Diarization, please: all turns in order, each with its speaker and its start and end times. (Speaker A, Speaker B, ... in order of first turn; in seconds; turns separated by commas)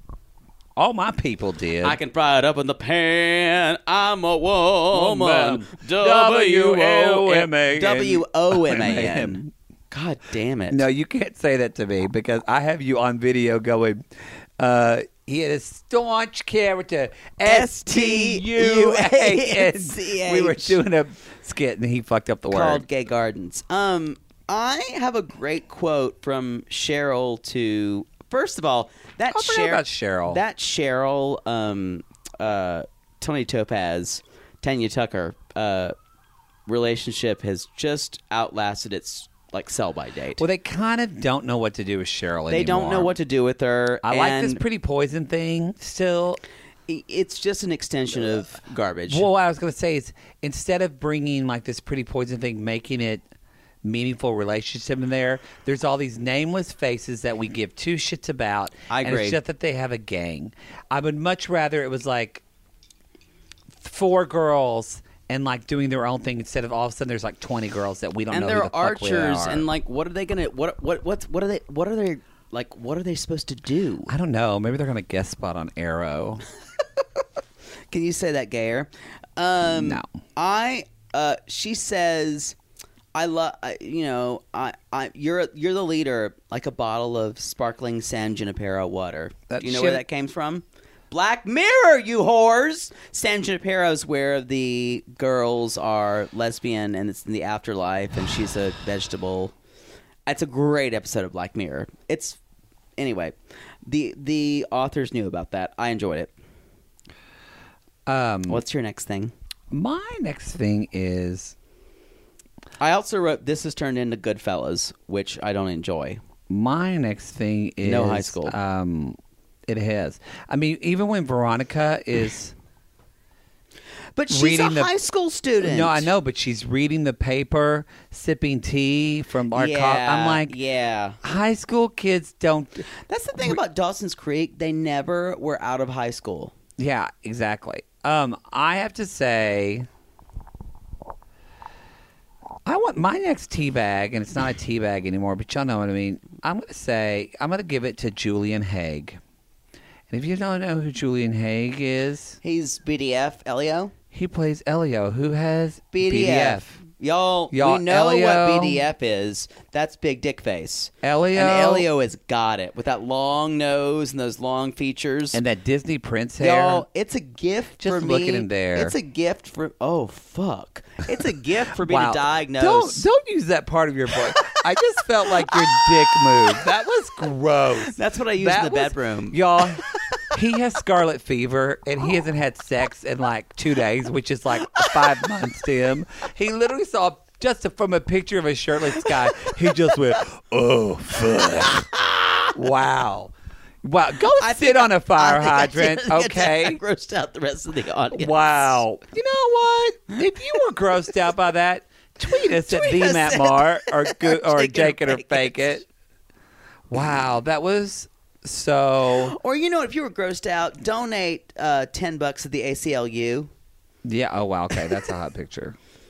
Speaker A: 0.8-2.0, Speaker B: 1.8-10.8, Speaker A: 4.9-9.5, Speaker A: 10.7-14.1, Speaker A: 14.6-22.8, Speaker B: 17.4-20.8, Speaker B: 22.5-36.0, Speaker A: 29.3-30.4, Speaker B: 36.7-40.4, Speaker A: 40.4-43.1, Speaker B: 42.5-44.6, Speaker A: 44.0-46.4, Speaker B: 46.9-49.3, Speaker A: 49.1-53.3, Speaker A: 53.8-62.4, Speaker B: 58.9-59.4, Speaker A: 63.8-69.7, Speaker B: 68.3-74.1, Speaker A: 74.1-76.4, Speaker B: 77.9-82.6, Speaker A: 79.7-80.1, Speaker B: 83.2-99.5, Speaker A: 89.5-90.0, Speaker B: 100.3-102.4, Speaker B: 103.0-106.3, Speaker A: 108.1-108.6, Speaker B: 108.5-109.3, Speaker A: 109.7-111.5, Speaker B: 112.8-116.2, Speaker A: 116.5-122.5, Speaker B: 117.8-118.5, Speaker B: 124.2-126.1, Speaker A: 124.3-124.9, Speaker A: 125.6-130.5, Speaker B: 129.5-131.2, Speaker A: 131.2-132.8, Speaker B: 133.1-136.5, Speaker A: 136.8-139.9, Speaker A: 142.7-149.2, Speaker A: 150.1-152.4, Speaker B: 152.4-153.9, Speaker A: 154.1-156.8, Speaker B: 155.9-165.4, Speaker A: 157.5-158.8, Speaker A: 161.0-161.9, Speaker A: 165.3-166.8, Speaker B: 166.4-173.1, Speaker A: 167.8-168.9, Speaker A: 171.8-191.9, Speaker B: 177.8-179.4, Speaker B: 191.6-192.5, Speaker A: 192.5-196.8, Speaker B: 194.4-198.8, Speaker A: 198.1-205.8, Speaker B: 202.4-205.7, Speaker A: 206.9-209.3, Speaker B: 209.2-213.5, Speaker A: 214.0-215.8